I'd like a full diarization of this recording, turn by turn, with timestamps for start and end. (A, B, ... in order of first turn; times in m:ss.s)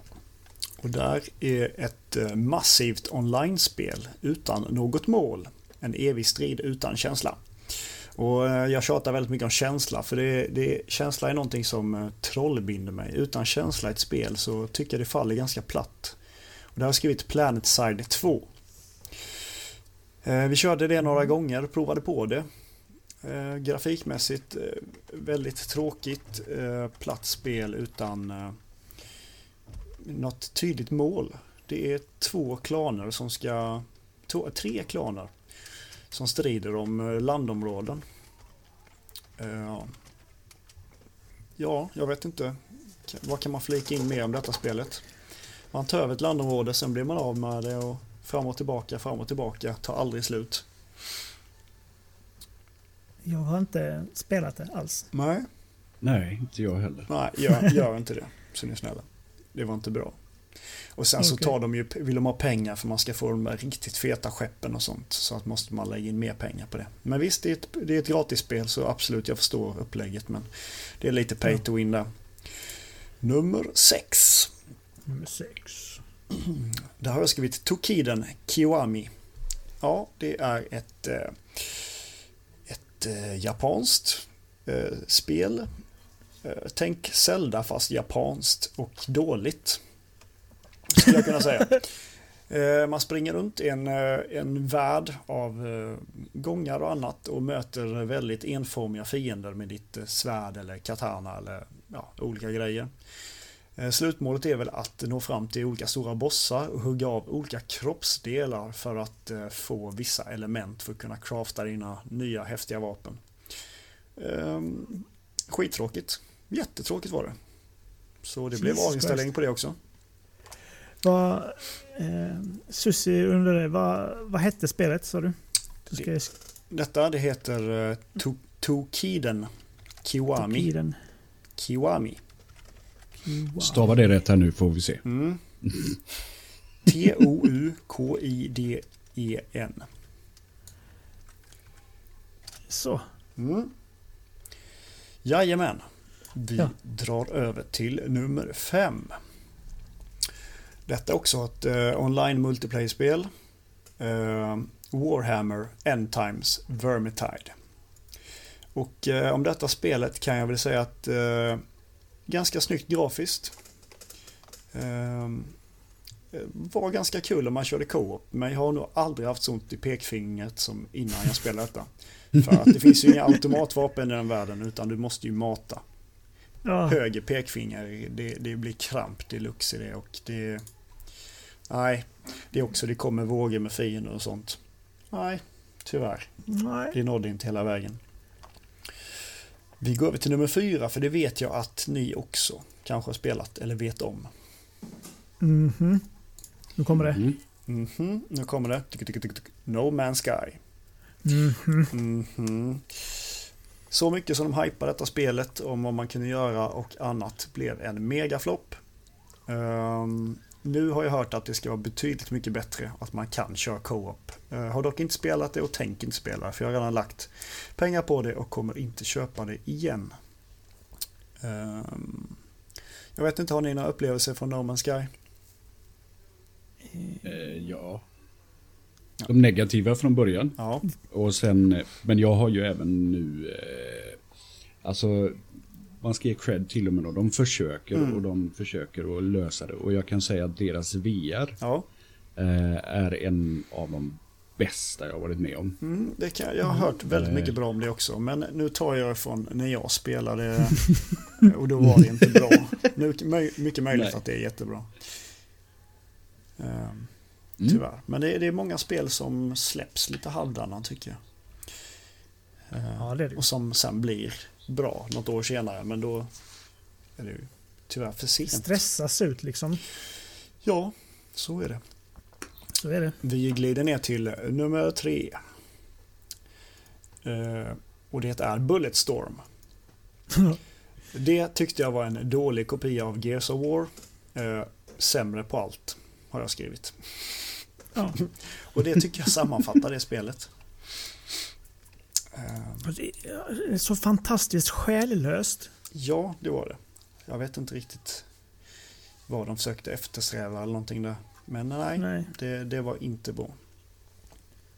0:00.8-0:16.2 A
0:16.7-0:18.5 A
0:20.2-0:22.4 A
0:23.2-0:28.6 A
0:30.0-0:35.3 A
0:36.1-0:38.0 A
0:39.4-0:39.9 A
0:41.6-0:45.0 A
0:45.7-0:50.6 A
0:53.2-0:55.1 B
0:55.1-0:55.5 A
0:56.0-0:57.1 C
0:57.1-1:00.2 A
1:00.9-1:12.1 A
1:01.2-1:01.5 B
1:13.2-1:14.5 A
1:15.1-1:16.0 B
1:16.3-1:19.1 A
1:19.8-1:22.1 A
1:22.7-1:25.7 A
1:26.4-1:29.8 A
1:30.9-1:31.9 A
1:32.5-1:42.9 A
1:43.8-1:53.2 A
1:54.2-1:57.4 A
1:58.2-1:59.8 A
1:58.5-1:59.3 B
2:01.0-2:06.3 B
2:06.7-2:09.5 A
2:10.0-2:10.7 A
2:10.4-2:11.0 B
2:11.6-2:12.2 A
2:13.2-2:13.9 B
2:13.6-2:15.0 C
2:15.0-2:15.4 A
2:15.6-2:16.0 C
2:16.8-2:19.9 A
2:22.7-2:23.0 B
2:23.4-2:23.7 A
2:25.2-2:29.2 A
2:30.8-2:33.3 A
2:34.0-2:37.5 A
2:38.7-2:41.6 A
2:42.3-2:43.6 A
2:44.7-2:45.5 A
2:46.3-2:55.8 A
2:56.6-2:57.0 B
2:56.8-3:00.6 A
3:01.7-3:04.6 A
3:05.1-3:06.3 A
3:06.5-3:07.0 B
3:06.9-3:08.0 A
3:09.8-3:14.3 A
3:15.4-3:16.0 B
3:16.8-3:17.2 B
3:17.0-3:17.4 C
3:17.6-3:20.6 A
3:21.2-3:21.9 B
3:21.9-3:28.8 A
3:29.5-3:40.1 A
3:41.4-3:42.4 A
3:43.2-3:45.1 A
3:47.0-3:47.2 B
3:47.2-3:48.0 C
3:49.2-3:54.2 C
3:50.6-3:50.8 A
3:54.8-4:01.6 C
3:57.9-3:58.2 A
4:01.6-4:01.8 A
4:02.4-4:05.8 C
4:05.8-4:15.1 A
4:07.0-4:07.6 C
4:13.9-4:14.2 C
4:16.6-4:21.2 A
4:22.7-4:26.3 A
4:23.0-4:23.4 B
4:27.2-4:28.8 A
4:28.5-4:29.8 B
4:30.6-4:31.8 A
4:32.7-4:33.2 B
4:33.2-4:35.4 A
4:37.2-4:39.4 A
4:40.3-4:40.6 B
4:41.1-4:47.6 A
4:48.1-4:50.5 A
4:52.3-4:52.9 A
4:52.8-4:55.7 B
4:55.9-4:58.2 A
4:59.3-5:03.6 A
5:02.0-5:02.3 B